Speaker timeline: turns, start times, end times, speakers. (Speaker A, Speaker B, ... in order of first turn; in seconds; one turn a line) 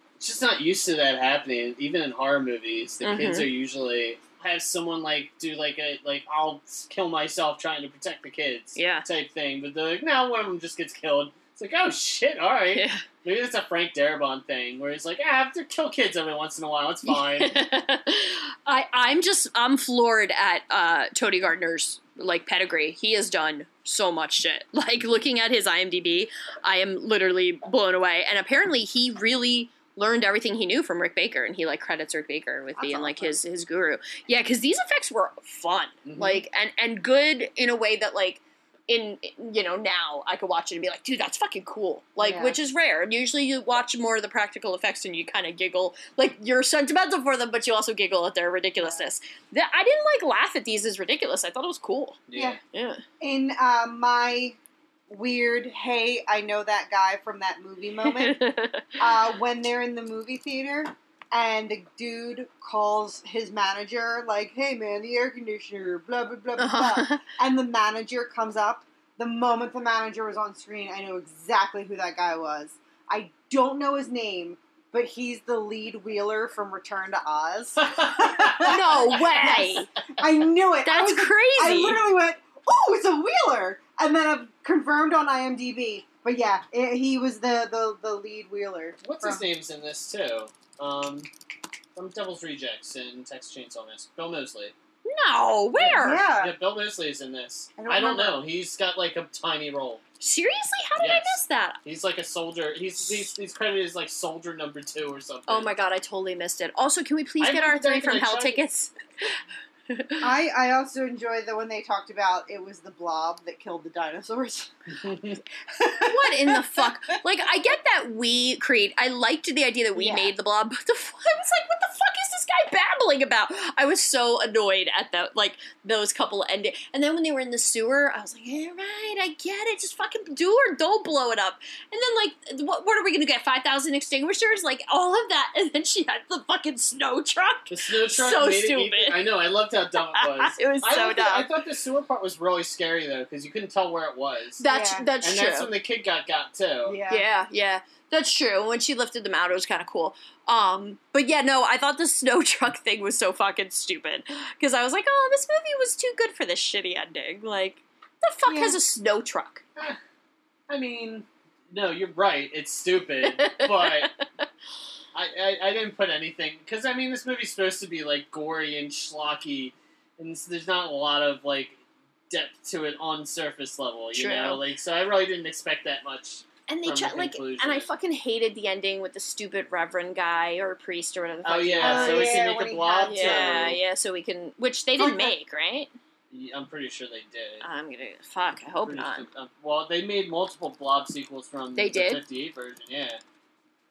Speaker A: 0.2-17.6
Speaker B: 3.0-3.5
Speaker B: 8.8-9.1
Speaker B: 12.7-13.1
Speaker B: 17.1-52.2
Speaker C: 32.8-33.4
Speaker A: 36.0-36.4
Speaker C: 42.2-42.6
Speaker A: 52.3-52.6
Speaker B: 52.7-53.0
Speaker C: 53.2-54.6
Speaker C: 55.1-58.4
Speaker B: 58.0-59.0
Speaker C: 59.0-89.5
Speaker B: 66.6-67.2
Speaker A: 77.9-78.8
Speaker B: 78.7-79.9
Speaker B: 80.8-82.1
Speaker A: 89.0-91.3
Speaker A: 92.0-94.7
Speaker B: 95.0-96.2
Speaker A: 95.8-100.0
Speaker C: 96.0-96.6
Speaker C: 97.8-98.5
Speaker B: 100.2-101.8
Speaker A: 101.0-105.7
Speaker B: 105.5-109.3
Speaker A: 107.4-108.6
Speaker B: 109.9-110.3
Speaker C: 110.2-114.7
Speaker A: 114.9-115.4
Speaker C: 115.7-116.9
Speaker B: 116.0-139.2
Speaker C: 120.0-120.3
Speaker A: 137.7-144.6
Speaker B: 140.1-141.5
Speaker B: 144.6-145.7
Speaker C: 144.7-145.1
Speaker A: 145.2-147.0
Speaker C: 146.8-147.2
Speaker B: 147.1-159.6
Speaker C: 158.5-158.8
Speaker A: 160.7-164.1
Speaker B: 163.4-164.1
Speaker A: 165.1-177.9
Speaker B: 174.1-174.6
Speaker B: 176.7-182.4
Speaker A: 181.4-183.8
Speaker C: 181.8-183.8
Speaker B: 183.1-185.9
Speaker C: 185.0-185.3
Speaker A: 186.3-187.7
Speaker B: 187.6-189.3
Speaker A: 188.8-193.2
Speaker B: 191.8-192.2